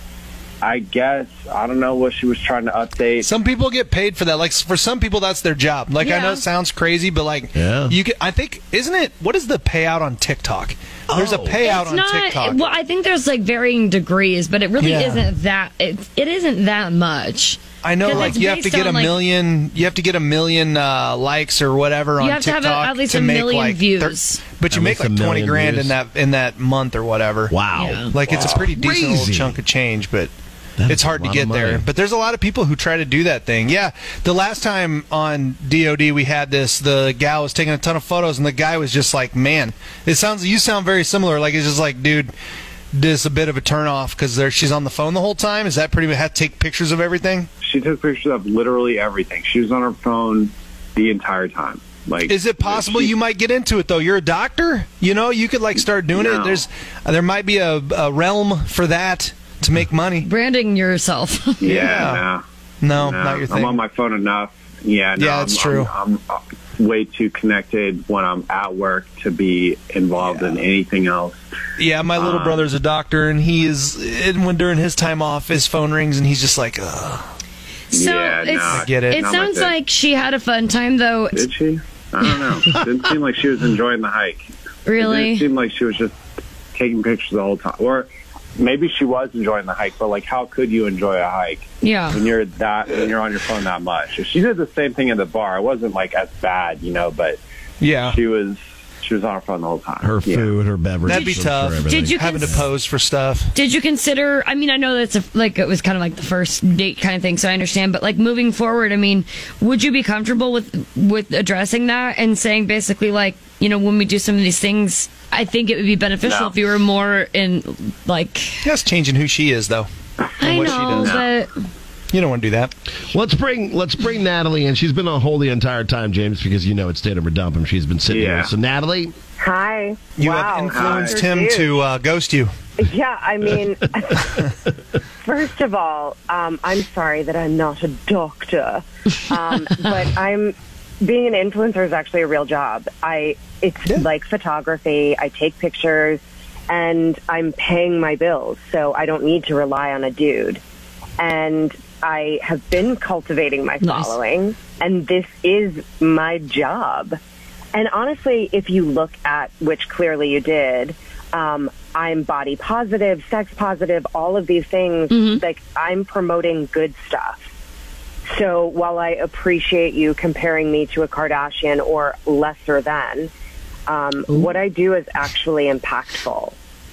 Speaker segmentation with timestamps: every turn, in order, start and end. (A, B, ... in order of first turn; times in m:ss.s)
0:00.6-0:03.3 A
0:03.2-0:12.6 B
0:06.0-0:06.4 C
0:07.5-0:07.9 D
0:11.1-0:11.6 D
0:11.6-0:19.2 C
0:14.8-0:15.3 B
0:17.8-0:30.3 B
0:22.2-0:24.6 C
0:24.7-0:26.0 D
0:27.5-0:29.6 D
0:27.7-0:28.1 C
0:30.8-0:31.9 D
0:30.9-0:42.3 B
0:42.9-0:47.5 B
0:47.6-0:53.1 A
0:52.3-1:00.3 B
0:56.1-0:56.6 A
1:00.2-1:02.0 C
1:01.6-1:02.4 A
1:01.6-1:02.2 B
1:02.8-1:03.8 B
1:02.9-1:11.4 A
1:05.2-1:05.9 B
1:10.2-1:10.6 B
1:11.8-1:17.3 B
1:12.1-1:12.7 A
1:17.9-1:21.5 C
1:17.9-1:19.8 A
1:18.7-1:19.3 B
1:21.3-1:24.4 A
1:24.8-1:25.5 C
1:25.0-1:26.1 A
1:26.7-1:37.4 A
1:31.8-1:32.2 C
1:37.8-1:38.2 B
1:38.0-1:40.5 A
1:40.0-1:42.6 D
1:41.0-1:43.5 B
1:41.1-1:42.7 C
1:43.5-1:58.7 C
1:56.2-1:56.6 A
1:58.6-1:59.9 B
2:00.4-2:01.5 C
2:00.4-2:01.2 B
2:00.6-2:01.3 A
2:02.1-2:02.7 B
2:03.1-2:09.1 D
2:08.1-2:08.5 A
2:09.4-2:11.7 E
2:10.2-2:12.5 B
2:10.7-2:11.2 A
2:12.8-2:14.4 E
2:15.2-2:30.6 E
2:31.2-2:37.2 E
2:33.8-2:34.2 C
2:37.7-2:47.4 E
2:45.1-2:45.4 C
2:48.3-2:53.3 E
2:53.9-2:56.6 E